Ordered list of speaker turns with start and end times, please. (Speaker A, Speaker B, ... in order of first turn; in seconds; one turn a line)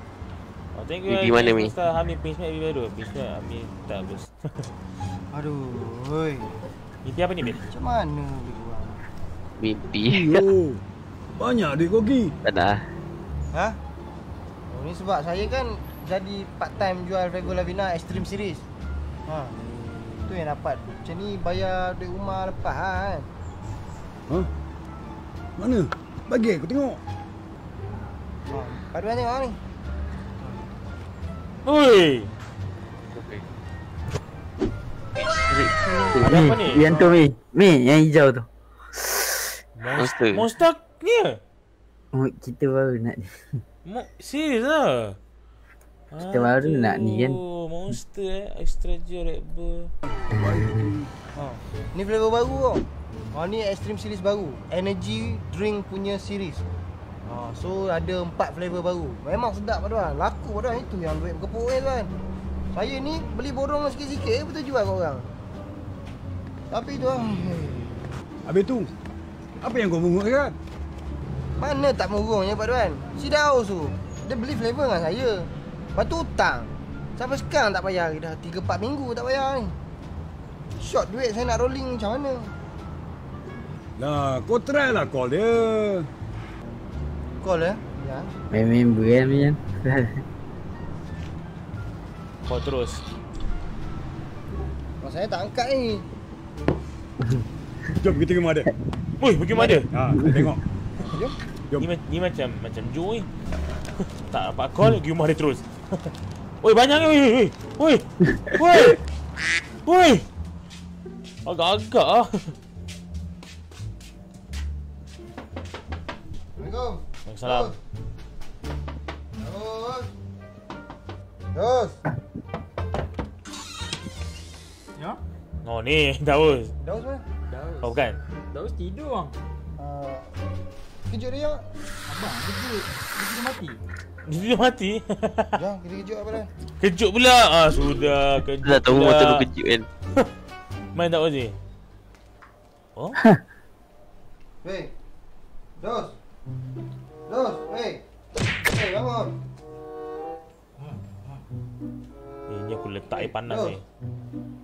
Speaker A: 0.7-4.7
Speaker B: 1.1-1.7
Speaker C: 5.3-6.5
Speaker A: 7.0-7.7
Speaker C: 7.5-9.0
Speaker B: 9.6-10.4
Speaker D: 10.0-10.8
Speaker D: 11.4-12.3
Speaker B: 12.4-12.8
Speaker C: 13.5-13.8
Speaker C: 14.7-18.6
Speaker C: 19.3-19.6
Speaker C: 20.3-23.3
Speaker D: 25.6-27.0
Speaker C: 28.5-29.6
Speaker A: 31.6-32.3
Speaker B: 33.1-33.4
Speaker B: 35.2-36.4
Speaker A: 36.2-37.2
Speaker E: 36.2-38.5
Speaker A: 39.8-41.4
Speaker B: 39.9-40.5
Speaker E: 42.1-43.3
Speaker A: 43.9-45.2
Speaker A: 46.1-49.9
Speaker E: 46.2-47.4
Speaker D: 50.3-51.1
Speaker C: 51.4-56.6
Speaker C: 57.3-62.1
Speaker C: 62.7-65.3
Speaker C: 66.7-68.0
Speaker D: 68.5-68.9
Speaker D: 69.6-70.5
Speaker C: 71.6-79.8
Speaker C: 80.8-82.5
Speaker D: 84.0-86.1
Speaker C: 87.4-88.3
Speaker E: 88.5-90.2
Speaker A: 92.5-93.0
Speaker C: 95.0-96.0
Speaker D: 98.0-98.7
Speaker A: 99.2-99.9
Speaker D: 99.9-100.6
Speaker A: 101.8-103.3
Speaker A: 104.2-109.0
Speaker A: 109.8-110.2
Speaker A: 111.5-112.5
Speaker C: 116.6-117.7
Speaker A: 117.3-117.7
Speaker C: 119.4-120.1
Speaker C: 121.5-122.0
Speaker A: 125.6-126.7
Speaker C: 126.8-127.2
Speaker F: 127.5-128.0
Speaker A: 127.8-128.2
Speaker F: 128.5-129.3
Speaker C: 129.8-130.3
Speaker C: 131.1-131.7
Speaker F: 132.1-133.8
Speaker A: 134.3-135.6
Speaker C: 135.6-136.5
Speaker A: 136.8-139.5
Speaker B: 138.6-139.9
Speaker A: 140.9-141.6
Speaker C: 144.6-144.9
Speaker C: 145.8-146.2
Speaker C: 147.3-148.0
Speaker C: 148.6-149.3
Speaker A: 152.5-153.8
Speaker C: 153.1-153.8